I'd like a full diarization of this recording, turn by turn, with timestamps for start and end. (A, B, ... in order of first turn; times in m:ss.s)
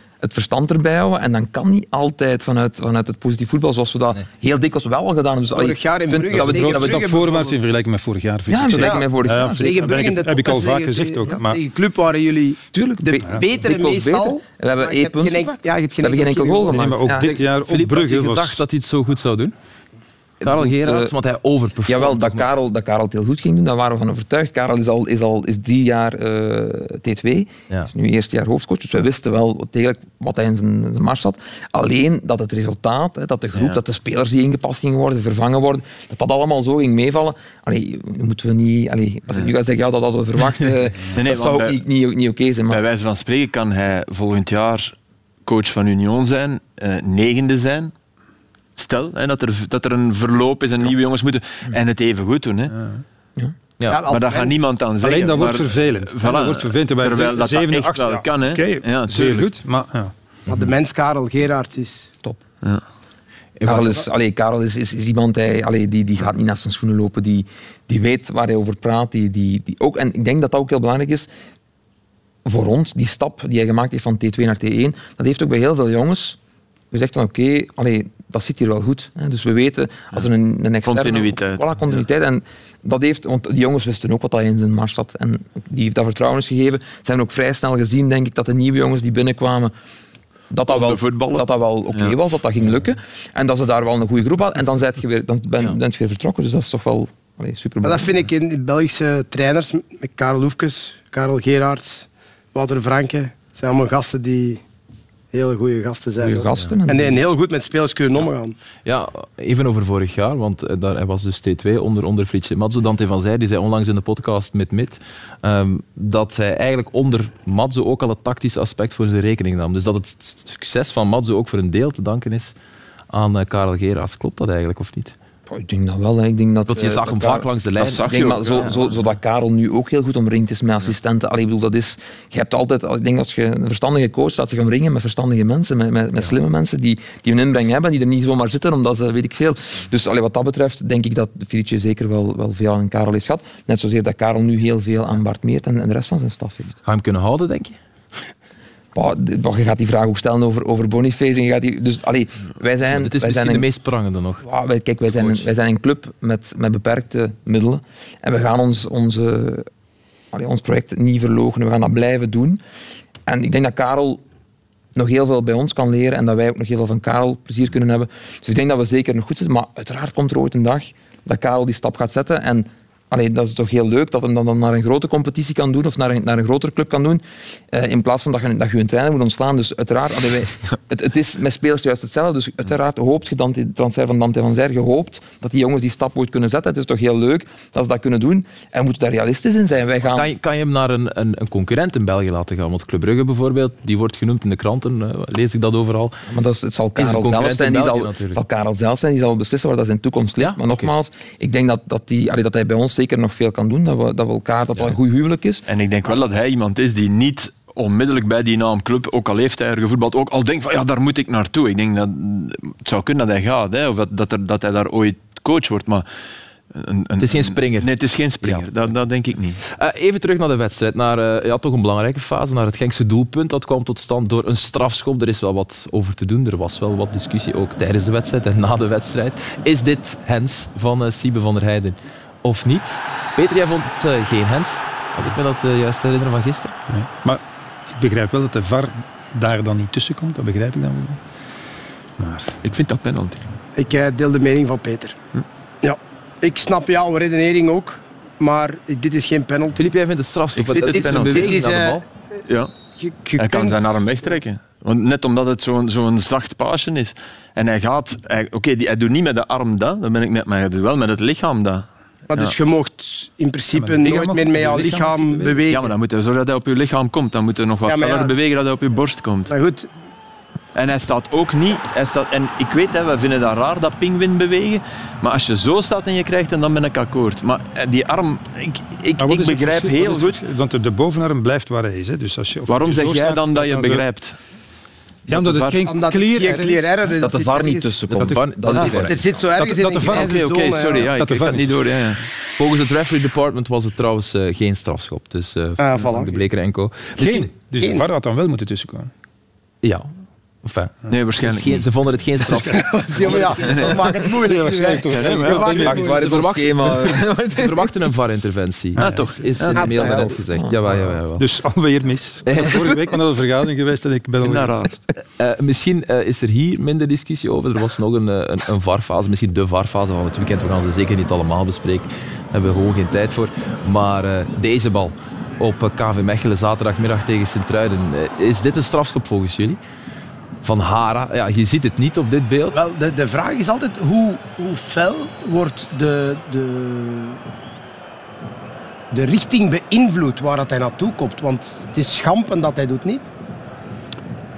0:00.2-0:07.0 A
0:05.5-0:07.6 B
0:06.3-0:11.6 C
0:08.5-0:10.0 A
0:08.7-0:12.6 B
0:12.7-0:17.3 A
0:13.2-0:16.8 B
0:16.7-0:18.6 C
0:17.1-0:19.5 D
0:20.4-0:21.1 A
0:20.4-0:22.5 D
0:21.9-0:42.8 A
0:33.5-0:33.8 E
0:41.1-0:41.8 E
0:42.7-0:44.9 E
0:45.4-0:47.9 E
0:48.8-0:52.7 E
0:52.7-0:53.0 C
0:53.9-0:54.6 B
0:54.1-0:59.5 E
0:55.0-1:00.1 C
1:00.5-1:02.1 B
1:03.6-1:04.0 D
1:03.6-1:11.3 A
1:12.4-1:16.4 A
1:16.9-1:29.7 A
1:20.8-1:22.0 E
1:30.5-1:38.1 A
1:30.7-1:32.2 E
1:37.8-1:44.6 B
1:45.3-1:48.6 B
1:46.2-1:47.2 A
1:48.8-2:02.6 D
2:03.1-2:05.1 D
2:05.5-2:07.4 A
2:06.7-2:08.8 D
2:07.8-2:08.9 E
2:08.0-2:26.8 A
2:26.8-2:27.8 D
2:28.9-2:33.6 A
2:32.9-2:34.4 D
2:34.4-2:39.6 A
2:35.1-2:35.4 D
2:40.3-2:42.6 A
2:43.3-2:44.2 A
2:44.9-3:10.3 A
3:10.0-3:16.2 D
3:16.3-3:25.6 A
3:17.0-3:18.4 D
3:20.4-3:20.9 D
3:25.7-3:36.0 E
3:36.7-3:39.6 E
3:37.2-3:37.9 D
3:39.6-3:56.8 D
3:56.9-3:57.4 C
3:57.9-4:01.2 C
4:02.2-4:02.6 C
4:02.6-4:03.4 E
4:03.8-4:05.2 B
4:05.8-4:09.8 B
4:09.8-4:12.0 D
4:10.5-4:11.6 E
4:10.9-4:12.0 B
4:13.0-4:13.8 B
4:13.4-4:22.5 E
4:22.3-4:25.9 B
4:23.7-4:25.6 C
4:25.7-4:29.5 E
4:27.8-4:28.3 B
4:29.5-4:29.9 B
4:30.7-4:40.4 E
4:39.2-4:44.0 C
4:42.7-4:44.4 E
4:45.3-4:46.9 C
4:45.3-4:45.8 E
4:45.8-4:48.0 B
4:47.2-4:49.2 A
4:48.1-4:49.2 D
4:48.7-4:51.1 B
4:49.6-4:50.3 C
4:50.1-4:52.2 E
4:51.2-4:51.7 C
4:52.6-4:57.5 D
4:55.8-4:56.4 B
4:57.2-4:59.1 C
4:59.8-5:00.1 D
5:00.6-5:03.9 D
5:01.1-5:01.8 E
5:02.6-5:06.3 B
5:03.6-5:03.9 E
5:04.2-5:06.2 C
5:05.1-5:05.9 E
5:05.8-5:07.9 A
5:06.0-5:11.5 D
5:09.0-5:09.9 E
5:09.0-5:09.3 C
5:09.7-5:10.4 B
5:09.8-5:11.0 A
5:11.4-5:14.8 C
5:12.4-5:12.8 D
5:14.4-5:14.9 E
5:15.3-5:29.8 D
5:30.6-5:32.8 D
5:32.7-5:37.4 B
5:39.1-5:43.3 B